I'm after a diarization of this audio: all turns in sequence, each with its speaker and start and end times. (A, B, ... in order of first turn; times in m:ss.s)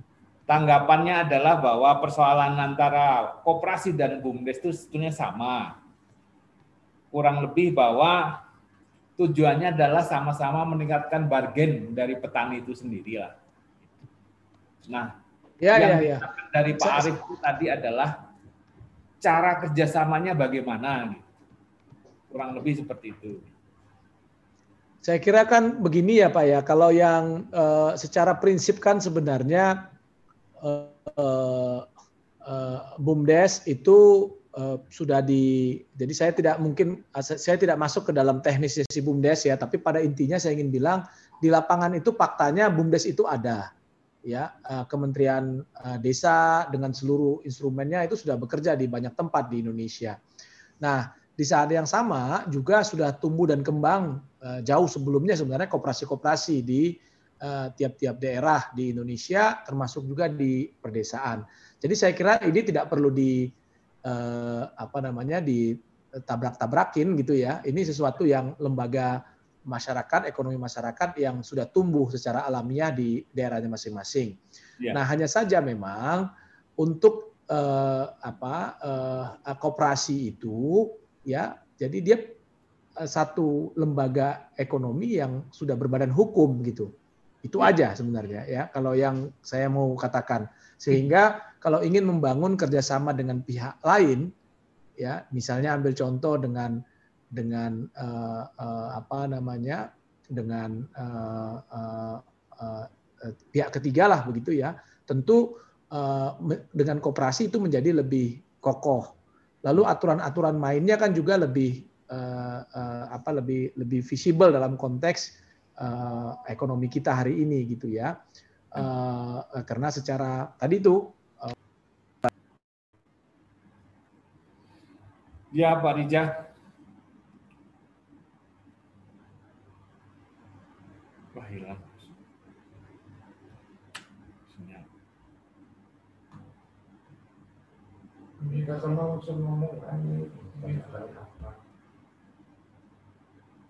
0:00.5-0:05.8 A
0:07.1-0:08.4 A
0:09.2-0:13.3 A
0:14.9-0:15.1 A
0:15.6-0:16.2 B
0:15.7-0:18.1 A
0:16.8-0:17.1 B
0:19.2-0:21.2 A
0:22.3-0:23.5 A
0:25.0-0:29.9 B
0:30.6-0:31.9 B
0:32.4-0:43.7 B
0:44.2-0:50.2 B
0:50.8-1:03.5 B
1:04.0-1:14.4 B
1:14.9-1:16.3 B
1:16.8-1:22.3 B
1:23.0-1:26.9 B
1:27.4-1:34.3 B
1:35.0-1:36.8 B
1:37.3-1:49.1 B
1:49.6-1:58.1 B
1:58.7-2:01.5 B
2:05.5-2:06.3 A
2:11.3-2:12.1 A
2:14.5-2:14.8 A
2:18.4-2:21.6 C